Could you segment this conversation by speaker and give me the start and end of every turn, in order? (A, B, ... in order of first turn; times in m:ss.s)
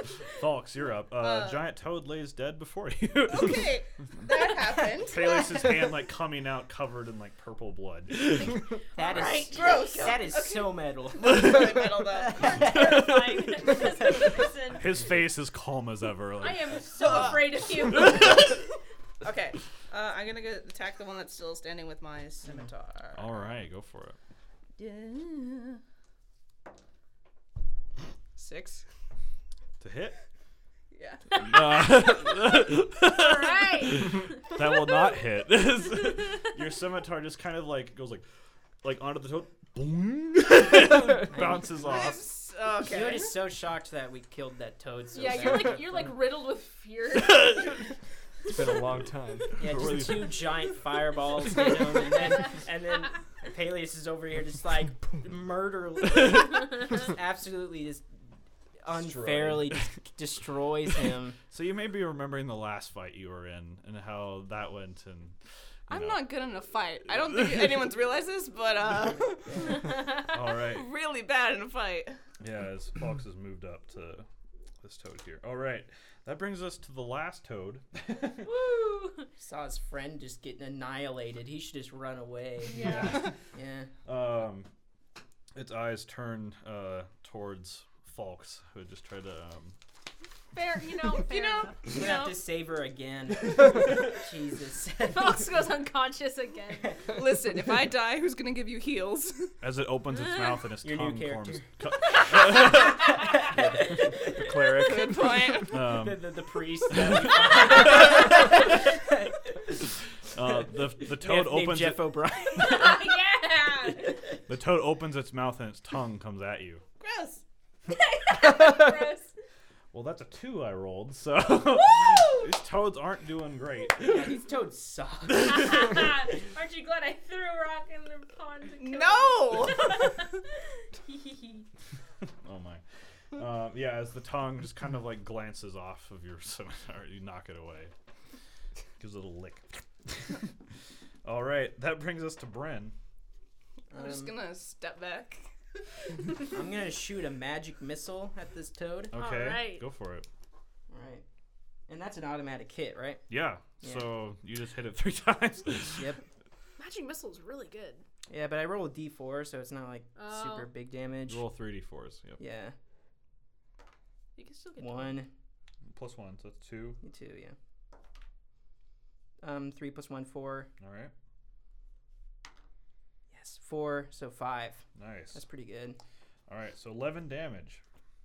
0:00.3-0:03.8 A
0:01.2-0:01.6 B
0:03.3-0:05.4 B
0:05.0-0:08.8 A
0:09.0-0:13.2 C
0:09.0-0:10.2 D
0:09.5-0:12.4 B
0:11.3-0:11.9 A
0:12.3-0:15.0 D
0:12.6-0:13.8 A
0:14.7-0:17.4 A
0:16.4-0:18.7 D
0:17.0-0:18.4 B
0:19.2-0:23.5 B
0:23.1-0:24.2 A
0:24.8-0:25.8 B
0:28.4-0:28.8 B
0:29.8-0:30.2 A
0:30.9-0:32.1 B
0:31.4-0:38.2 A
0:33.0-0:34.4 D
0:38.8-0:42.3 A
0:41.3-0:41.7 C
0:41.8-0:43.4 B
0:42.8-0:45.8 C
0:45.1-0:47.9 D
0:47.2-0:47.6 A
0:48.5-0:49.6 E
0:49.6-0:58.0 C
0:49.6-0:50.6 A
0:58.8-1:01.4 C
0:59.0-0:59.9 A
1:01.5-1:05.4 A
1:05.9-1:06.3 A
1:05.9-1:12.2 B
1:07.1-1:07.9 A
1:09.3-1:09.9 C
1:10.3-1:10.9 A
1:12.4-1:14.3 A
1:14.8-1:18.5 A
1:18.4-1:19.3 D
1:19.4-1:23.9 C
1:22.7-1:23.3 D
1:22.8-1:23.3 A
1:24.0-1:24.7 A
1:25.6-1:29.8 A
1:30.5-1:31.9 D
1:31.2-1:32.4 B
1:31.9-1:35.6 C
1:35.0-1:37.0 D
1:37.1-1:39.5 B
1:39.6-1:43.1 A
1:40.3-1:40.6 D
1:40.8-1:41.6 C
1:42.4-1:42.9 D
1:42.5-1:44.7 C
1:43.5-1:45.3 E
1:44.8-1:45.9 B
1:45.7-1:46.3 A
1:45.7-1:49.7 C
1:46.9-1:48.4 A
1:50.3-1:52.2 A
1:51.0-1:53.2 C
1:52.5-1:54.2 D
1:54.5-1:56.8 A
1:57.0-1:57.4 B
1:57.9-1:59.3 D
1:59.9-2:04.4 A
2:02.1-2:02.4 D
2:04.0-2:06.0 C
2:05.4-2:11.7 D
2:08.8-2:10.1 B
2:12.4-2:17.9 A
2:19.0-2:20.6 A
2:21.2-2:23.0 A
2:23.9-2:24.4 C
2:23.9-2:25.4 B
2:26.5-2:29.1 C
2:29.1-2:30.3 A
2:29.1-2:29.8 D
2:30.9-2:31.2 C
2:31.9-2:33.2 C
2:33.3-2:36.2 A
2:36.8-2:38.0 D
2:38.3-2:41.4 C
2:40.2-2:40.7 D
2:41.3-2:42.4 A
2:42.4-2:42.8 C
2:44.4-2:45.2 D
2:44.8-2:45.3 C
2:45.9-2:47.0 A
2:47.0-2:47.6 C
2:49.4-2:50.7 C
2:50.8-2:51.1 A
2:53.3-2:56.0 C
2:55.0-2:55.4 A
2:56.5-2:57.8 A